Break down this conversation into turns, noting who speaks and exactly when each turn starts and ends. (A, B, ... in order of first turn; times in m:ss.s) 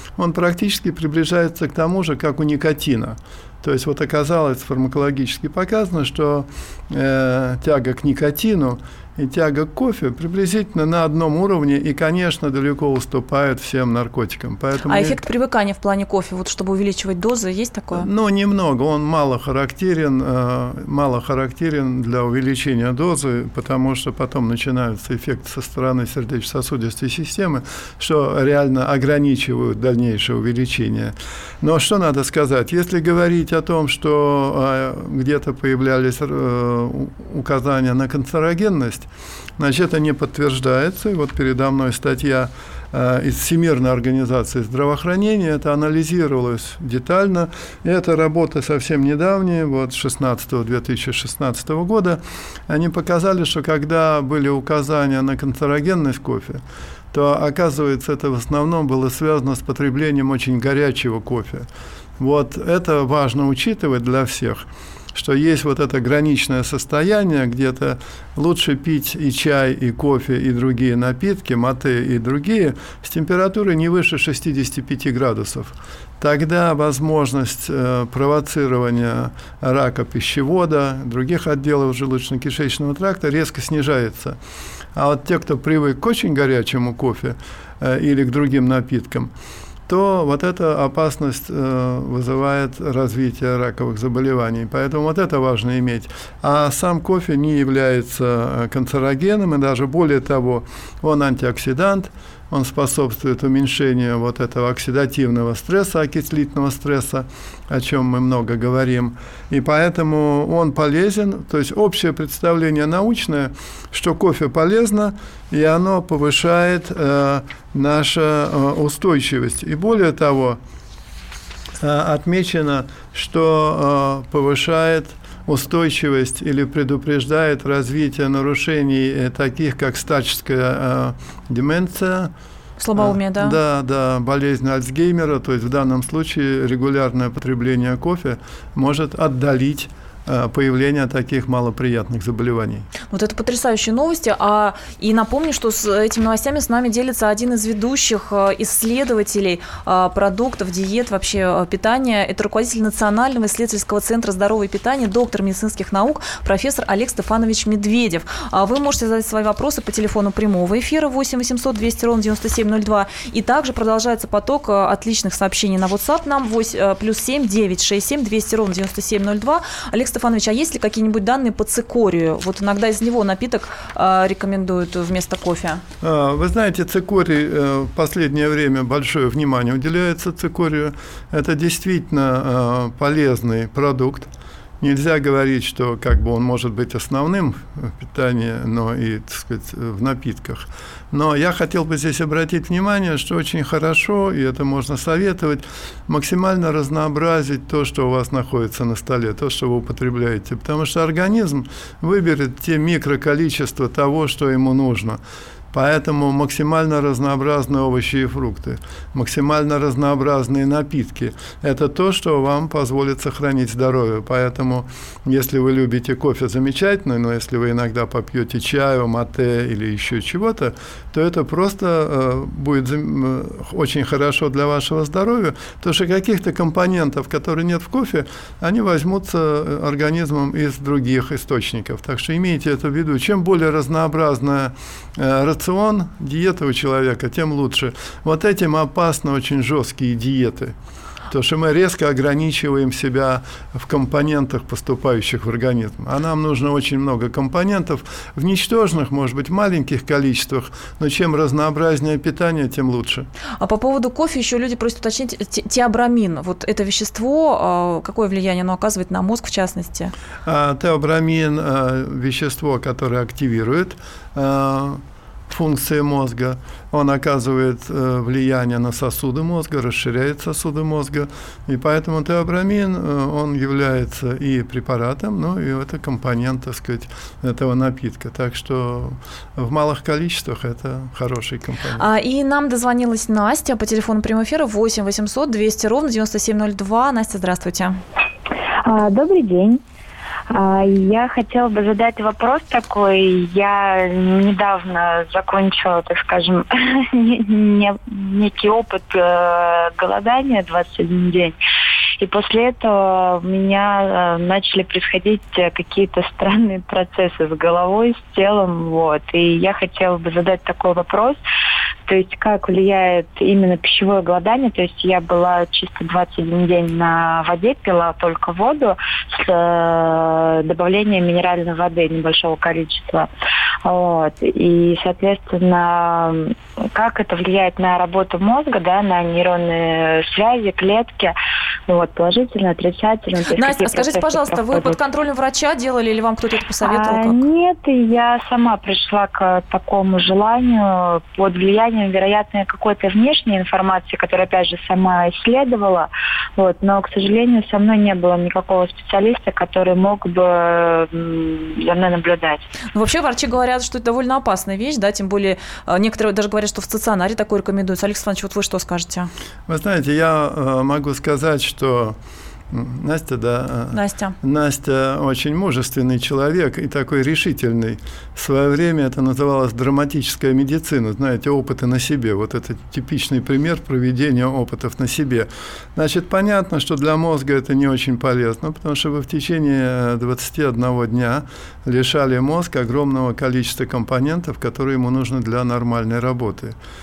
0:00.2-0:15.2 A
0:14.9-0:18.1 B
0:17.9-0:56.6 A
0:57.1-1:01.7 A
1:02.2-1:24.4 A
1:25.0-1:29.3 A
1:29.9-2:00.6 A
2:01.8-2:12.3 A
2:12.8-2:13.6 B
2:13.0-2:22.9 A
2:23.1-2:55.8 B
2:56.0-3:25.2 A
3:25.7-4:00.8 A
4:01.3-4:13.3 A
4:13.6-4:20.1 B
4:20.4-4:42.1 A
4:42.0-4:48.0 B
4:48.8-4:49.8 C
4:50.5-5:01.6 C
5:02.2-5:11.4 C
5:12.1-5:23.3 C
5:23.8-5:31.4 C
5:31.9-5:35.0 C
5:33.6-5:37.4 B
5:36.8-5:52.7 C
5:52.9-5:59.3 B
5:59.7-6:02.2 A
6:02.7-6:26.8 A
6:03.9-6:04.4 B